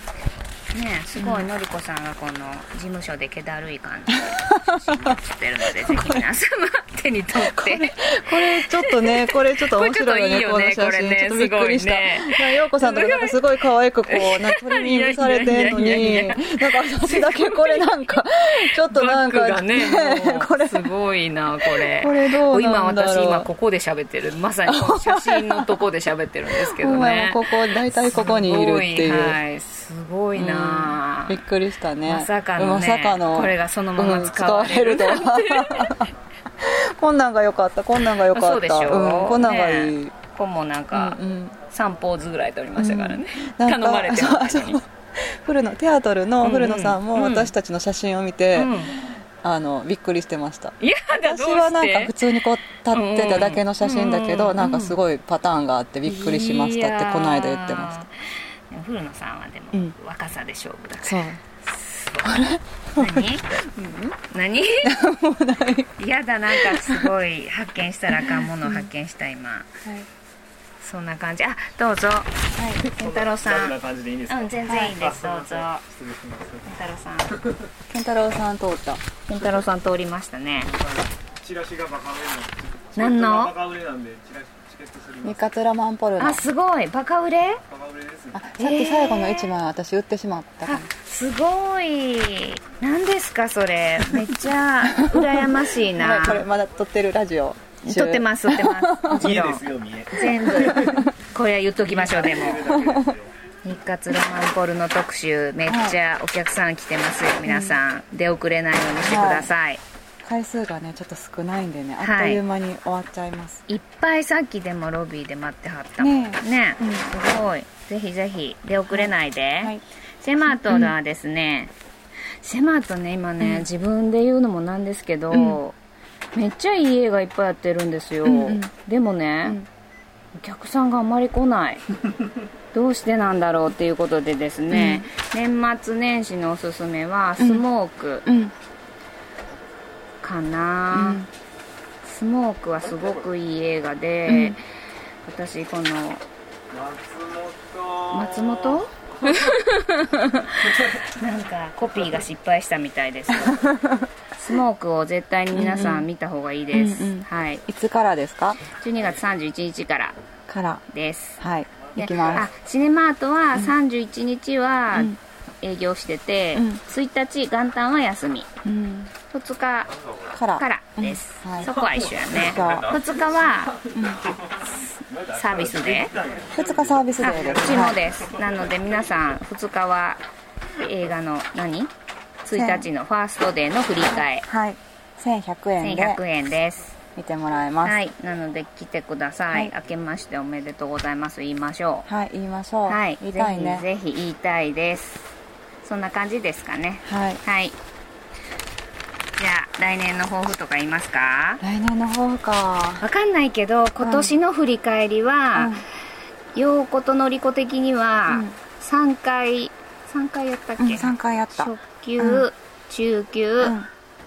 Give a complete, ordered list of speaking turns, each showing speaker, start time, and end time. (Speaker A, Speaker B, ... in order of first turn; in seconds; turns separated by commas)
Speaker A: 0.7-13.3, Speaker B: 1.2-1.5, Speaker B: 4.1-6.3, Speaker B: 7.3-20.9, Speaker A: 14.1-17.9, Speaker A: 18.6-31.4, Speaker B: 21.6-23.5, Speaker B: 24.7-25.8, Speaker B: 26.5-29.4, Speaker B: 30.4-40.1, Speaker A: 32.0-36.0, Speaker A: 38.2-44.8, Speaker B: 40.9-41.6, Speaker B: 42.8-48.8, Speaker A: 46.4-47.5, Speaker A: 48.5-48.9, Speaker B: 49.4-58.0, Speaker A: 50.8-52.4, Speaker A: 52.9-55.0, Speaker A: 56.0-62.4, Speaker B: 61.0-61.4, Speaker B: 62.2-64.1, Speaker A: 63.0-63.4, Speaker A: 64.2-64.9, Speaker B: 64.8-65.9, Speaker A: 66.0-69.7, Speaker B: 66.5-67.1, Speaker B: 68.1-68.9, Speaker A: 70.8-73.8, Speaker B: 72.5-72.8, Speaker C: 72.8-76.7, Speaker A: 74.3-75.8, Speaker A: 76.6-77.4, Speaker B: 77.9-79.0, Speaker A: 79.3-80.7, Speaker C: 80.7-85.4, Speaker A: 83.0-83.5, Speaker B: 85.2-86.4, Speaker A: 86.2-87.6, Speaker C: 87.7-88.4, Speaker B: 88.3-90.9, Speaker A: 88.6-89.5, Speaker A: 90.6-96.5, Speaker B: 94.0-94.3, Speaker B: 94.8-99.6, Speaker A: 97.8-102.7, Speaker C: 99.1-100.8, Speaker B: 100.2-101.1, Speaker C: 102.0-103.3, Speaker B: 102.6-103.1, Speaker A: 103.6-109.8, Speaker B: 105.7-106.0, Speaker B: 107.5-107.8, Speaker B: 109.0-109.5, Speaker B: 110.2-113.7, Speaker A: 112.0-112.4, Speaker A: 113.7-121.7, Speaker B: 116.0-117.1, Speaker B: 118.9-119.8, Speaker B: 120.4-120.9, Speaker A: 122.4-125.8, Speaker B: 123.4-123.7, Speaker B: 125.3-125.6, Speaker A: 126.3-129.6, Speaker B: 128.2-128.7, Speaker A: 130.3-131.8, Speaker A: 132.7-138.2, Speaker B: 134.7-135.1, Speaker B: 137.4-137.7, Speaker B: 138.2-138.5, Speaker A: 140.2-141.2, Speaker B: 140.9-141.3, Speaker A: 142.0-144.6, Speaker B: 144.2-144.6, Speaker A: 145.2-146.2, Speaker C: 146.7-148.8, Speaker A: 148.1-153.7, Speaker B: 153.3-154.1, Speaker A: 154.4-157.6, Speaker B: 155.5-156.1, Speaker B: 156.7-158.6, Speaker A: 158.6-160.2, Speaker B: 160.5-160.8, Speaker A: 160.9-161.4, Speaker B: 161.4-162.5, Speaker A: 161.9-168.5, Speaker B: 164.9-165.2, Speaker B: 166.5-166.8, Speaker B: 168.6-169.1, Speaker A: 169.3-169.9, Speaker B: 170.3-171.7, Speaker A: 170.5-173.8, Speaker B: 172.3-172.9, Speaker B: 173.9-174.3, Speaker A: 174.8-176.2, Speaker C: 175.1-177.9, Speaker B: 176.5-178.0, Speaker A: 177.2-180.2, Speaker A: 180.8-181.9, Speaker A: 182.4-184.4, Speaker B: 182.5-182.9, Speaker B: 184.1-186.2, Speaker A: 185.8-186.9, Speaker B: 187.2-188.0, Speaker A: 187.8-192.1, Speaker B: 192.1-193.9, Speaker A: 192.9-195.3, Speaker A: 195.8-197.8, Speaker B: 197.0-197.4, Speaker A: 199.4-201.6, Speaker B: 201.6-203.0, Speaker A: 203.0-205.8, Speaker B: 204.0-204.3, Speaker B: 205.5-205.8, Speaker A: 206.5-213.7, Speaker B: 208.3-208.6, Speaker B: 210.8-212.5, Speaker B: 213.6-213.9